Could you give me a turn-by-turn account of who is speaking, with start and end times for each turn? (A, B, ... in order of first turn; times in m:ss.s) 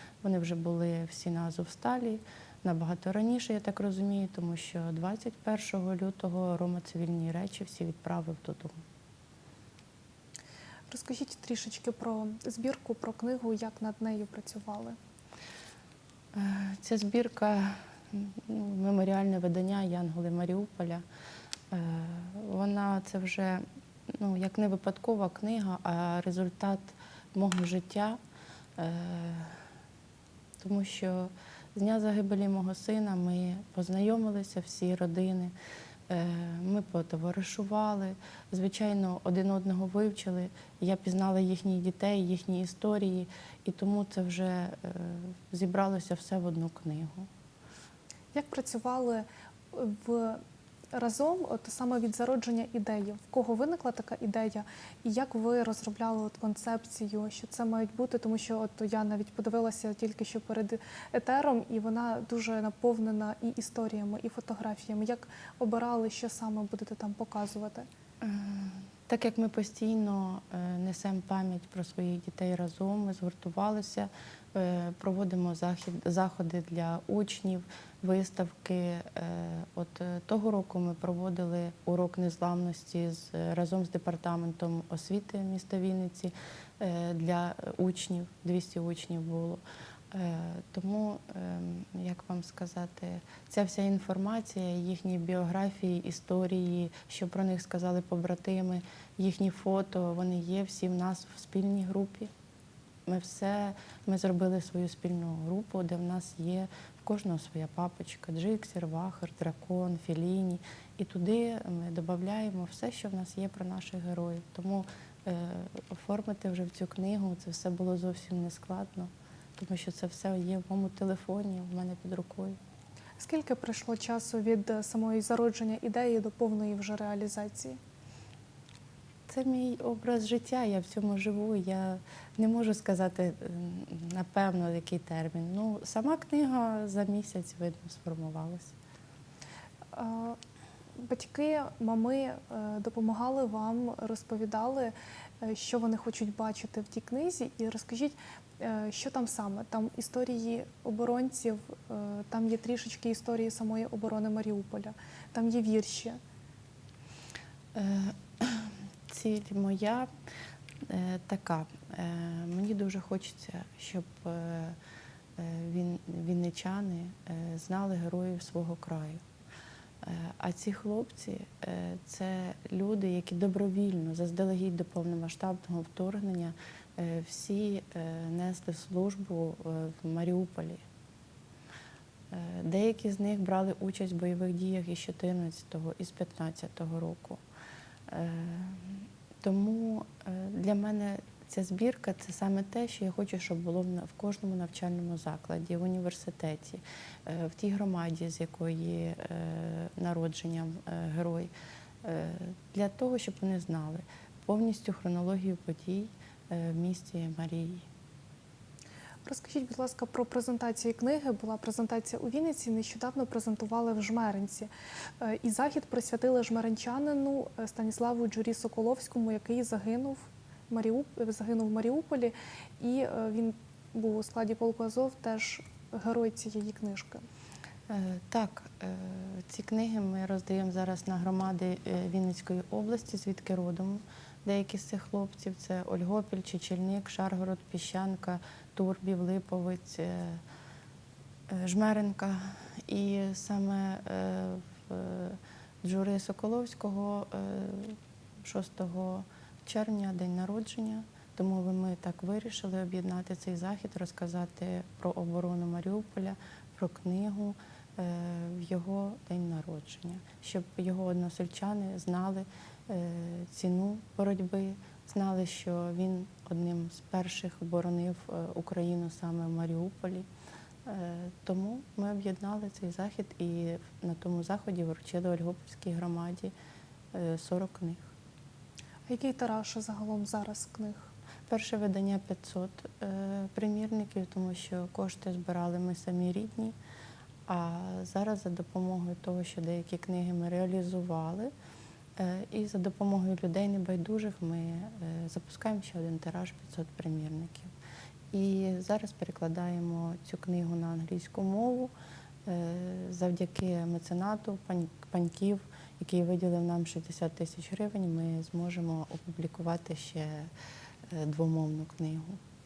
0:00.2-0:08.7 A
0:10.9-0:15.0 B
0:16.3-0:21.0 A
0:21.7-0:23.6 A
0:24.2-0:28.2 A
0:28.8-0:29.6 A
0:30.6-0:35.5 A
0:36.1-0:47.3 A
0:48.3-0:50.4 B
0:50.9-1:07.9 B
1:08.2-1:42.3 A
1:43.0-2:02.6 A
2:03.2-2:07.8 B
2:09.3-2:18.7 A
2:19.9-2:20.4 B
2:21.0-2:36.2 B
2:37.7-2:40.1 A
2:40.9-2:44.8 A
2:45.4-2:49.2 A
2:50.0-3:00.8 A
3:02.3-3:07.4 A
3:08.1-3:21.5 A
3:22.0-3:27.8 A
3:29.2-3:47.2 B
3:47.9-4:00.4 A
4:01.5-4:30.3 A
4:30.8-4:36.5 A
4:37.1-4:38.1 A
4:39.1-4:41.1 B
4:41.5-4:46.7 A
4:47.5-4:51.5 A
4:52.2-4:57.7 A
4:58.3-5:01.9 A
5:02.4-5:10.5 A
5:11.1-5:12.4 A